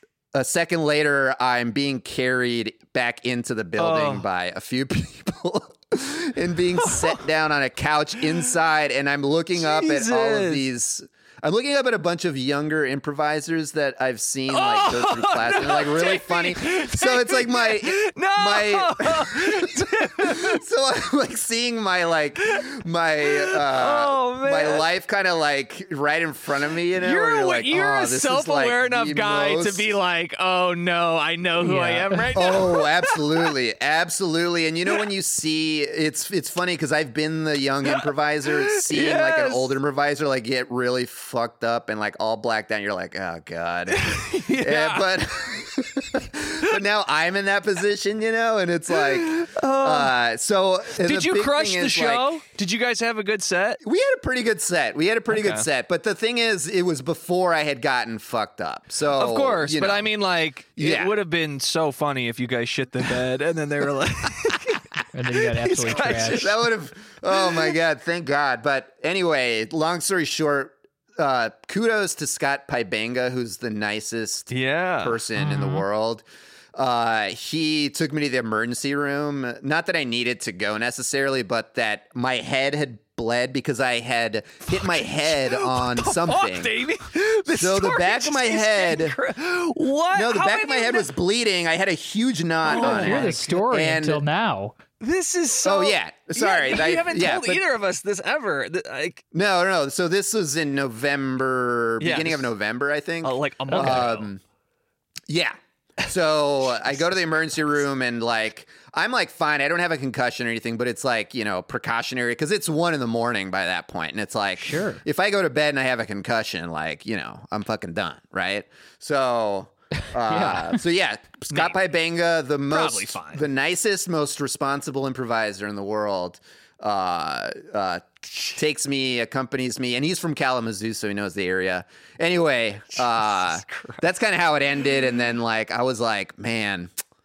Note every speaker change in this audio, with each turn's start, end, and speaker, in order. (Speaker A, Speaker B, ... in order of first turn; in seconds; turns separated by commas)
Speaker A: 0.3-29.9, Speaker B: 3.8-4.2, Speaker B: 6.8-7.2, Speaker B: 9.6-10.6, Speaker B: 14.5-20.6, Speaker B: 23.2-24.9, Speaker B: 27.0-33.5, Speaker C: 31.6-32.3, Speaker A: 32.3-52.4, Speaker B: 37.8-39.8, Speaker B: 43.9-45.1, Speaker B: 48.9-50.1, Speaker B: 50.9-53.8, Speaker A: 53.8-60.1, Speaker B: 55.3-55.6, Speaker B: 59.1-66.6, Speaker A: 60.8-61.1, Speaker C: 65.1-66.5, Speaker A: 65.8-74.5, Speaker B: 67.3-67.7, Speaker B: 74.5-75.2, Speaker A: 75.0-86.8, Speaker C: 75.4-75.8, Speaker B: 84.7-91.1, Speaker A: 87.5-89.2, Speaker A: 90.1-94.2, Speaker B: 92.6-93.6, Speaker C: 92.7-94.7, Speaker B: 95.0-99.2, Speaker A: 95.6-97.6, Speaker A: 99.3-104.4, Speaker B: 102.0-102.5, Speaker B: 103.2-104.3, Speaker C: 103.7-104.0, Speaker A: 105.3-136.9, Speaker C: 114.6-115.0, Speaker C: 120.1-120.8, Speaker B: 121.5-121.8, Speaker B: 122.7-123.4, Speaker B: 133.0-134.0